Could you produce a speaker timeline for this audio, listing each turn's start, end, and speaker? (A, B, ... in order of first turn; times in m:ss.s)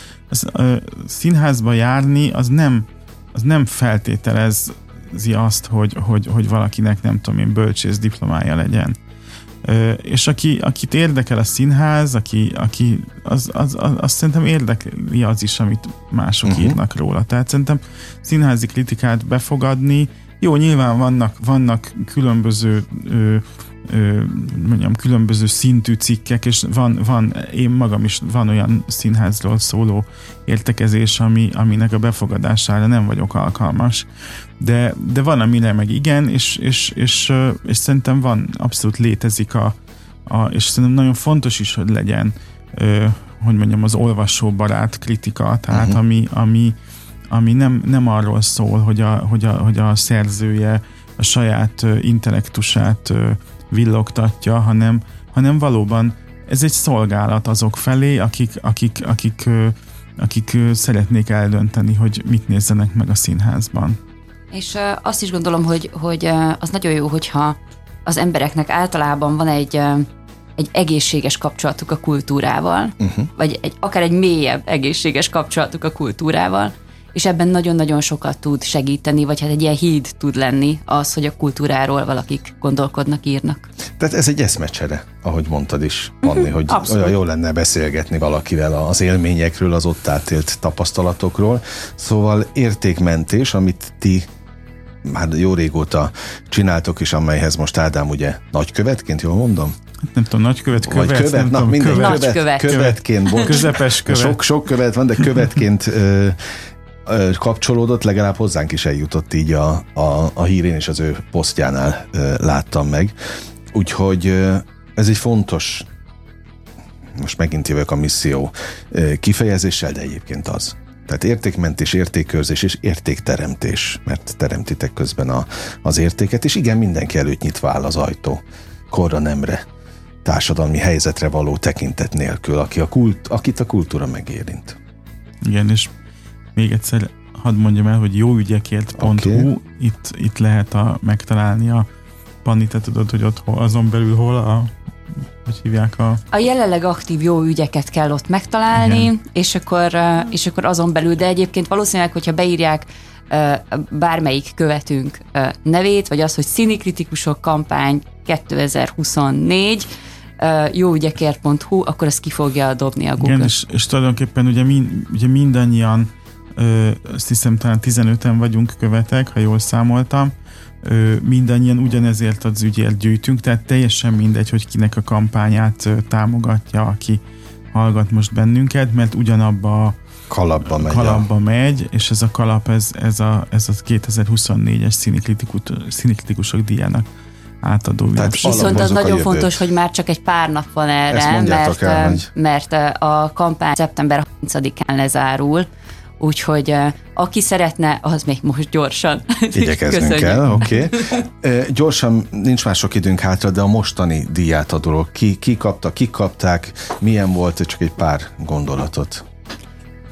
0:00.3-0:09.0 A
0:09.6-0:34.1 A
0:16.4-0:16.8 B
0:34.6-0:46.7 A
0:45.7-0:46.0 B
0:47.3-1:04.0 A
1:04.5-1:10.1 C
1:10.6-1:23.7 C
1:24.0-1:34.3 B
1:26.3-1:27.1 C
1:35.0-1:39.7 B
1:40.1-1:44.4 A
1:40.7-1:46.4 B
1:41.9-1:43.5 C
1:47.0-1:53.1 B
1:53.7-1:55.9 B
1:57.2-2:09.6 B
2:10.2-2:14.8 B
2:15.4-2:15.9 A
2:16.6-2:21.9 A
2:19.0-2:19.5 B
2:22.4-2:24.7 A
2:25.4-2:26.2 A
2:26.3-2:43.5 C
2:28.7-2:29.1 A
2:43.2-2:57.2 A
2:57.7-3:00.0 A
3:00.3-3:01.2 B
3:00.7-3:07.0 A
3:07.6-3:08.9 A
3:08.1-3:09.6 B
3:08.4-3:15.7 C
3:11.1-3:12.3 B
3:16.2-3:21.2 C
3:19.5-3:29.2 B